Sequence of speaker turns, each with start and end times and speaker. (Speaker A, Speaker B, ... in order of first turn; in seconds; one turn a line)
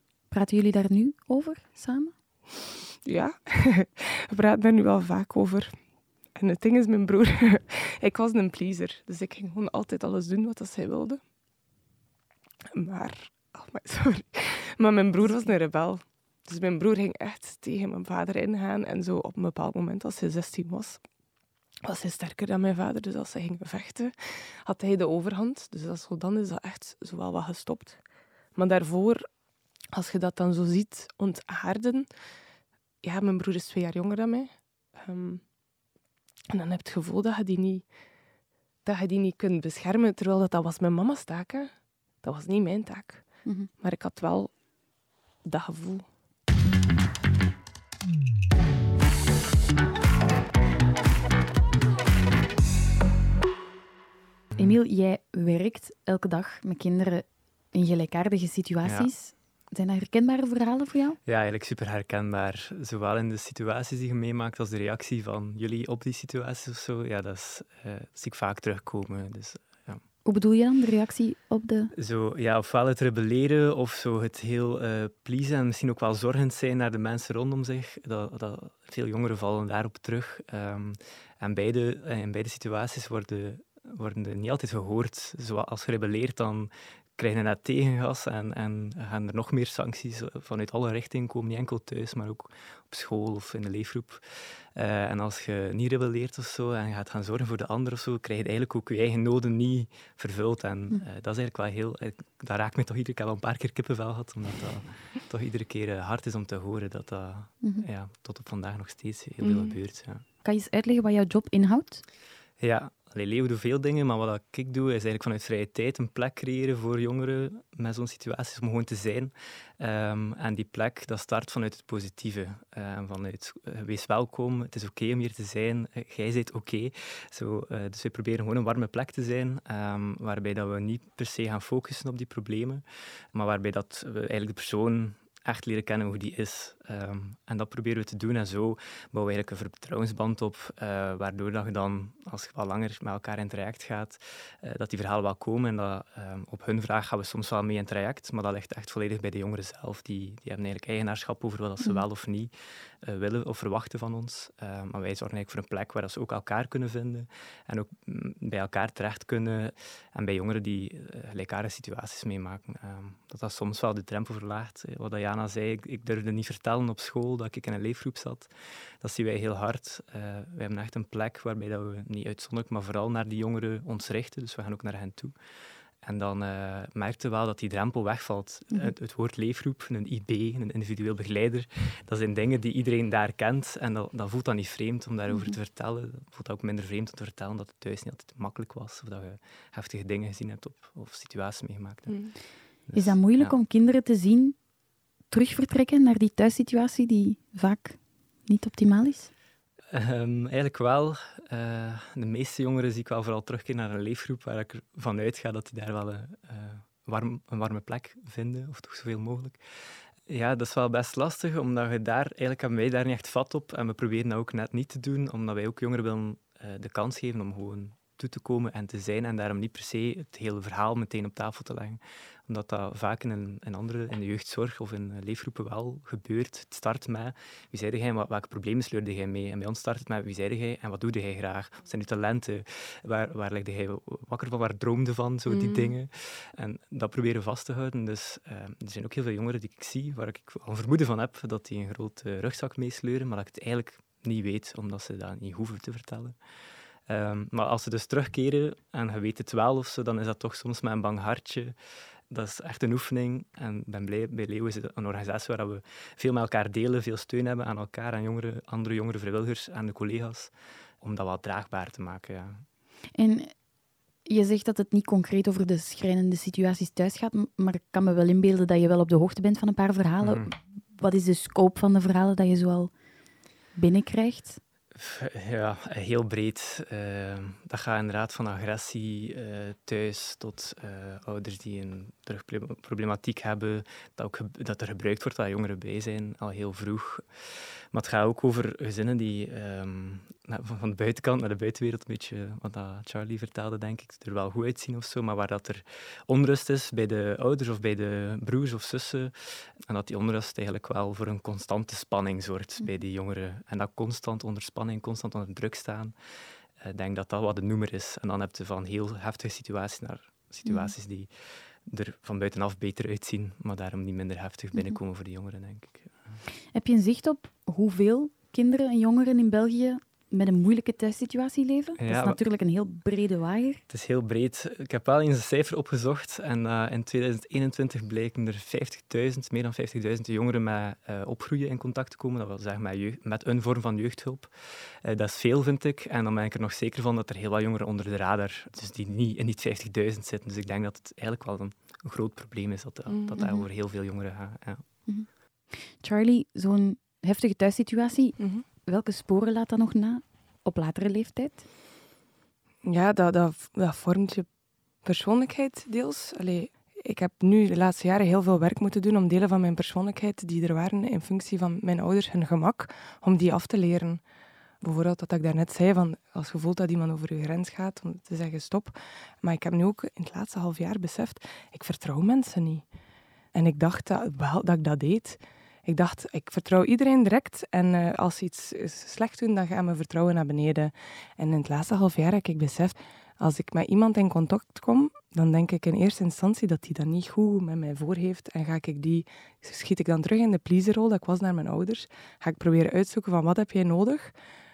Speaker A: 0.3-2.1
Speaker B: 3.0-5.8
Speaker B: 6.3-11.2
Speaker B: 12.7-21.0
Speaker B: 21.8-28.0
Speaker B: 28.5-29.2
Speaker B: 29.9-32.1
Speaker B: 33.0-35.4
Speaker B: 36.5-37.8
Speaker B: 38.8-41.7
Speaker B: 42.2-43.2
Speaker A: 43.4-43.7
Speaker B: 43.8-44.5
Speaker B: 45.4-46.1
Speaker A: 54.6-61.2
Speaker C: 58.8-59.1
Speaker C: 61.2-70.0
Speaker A: 70.2-71.9
Speaker C: 71.9-110.2
Speaker B: 109.4-109.8
Speaker A: 110.4-112.0
Speaker C: 112.6-132.8
Speaker C: 133.3-152.5
Speaker C: 153.0-175.3
Speaker C: 176.0-192.2
Speaker A: 185.3-185.6
Speaker C: 192.9-193.6
Speaker A: 192.9-194.6
Speaker A: 195.3-199.3
Speaker C: 199.9-209.6
Speaker C: 210.3-246.3
Speaker B: 235.5-235.9
Speaker C: 247.1-251.7
Speaker C: 252.3-262.6
Speaker A: 263.1-263.5
Speaker A: 264.2-272.9
Speaker C: 270.2-270.5
Speaker A: 273.7-274.6
Speaker C: 274.9-299.3
Speaker C: 299.9-306.1
Speaker C: 306.8-311.3
Speaker A: 310.6-310.9
Speaker C: 311.9-316.1
Speaker A: 316.7-323.8
Speaker C: 322.0-322.4
Speaker C: 323.9-344.8
Speaker B: 343.1-343.4
Speaker A: 343.4-343.6
Speaker A: 345.1-351.6
Speaker B: 348.4-348.6
Speaker B: 352.8-354.5
Speaker B: 355.0-364.2
Speaker B: 364.8-372.8
Speaker B: 373.5-394.3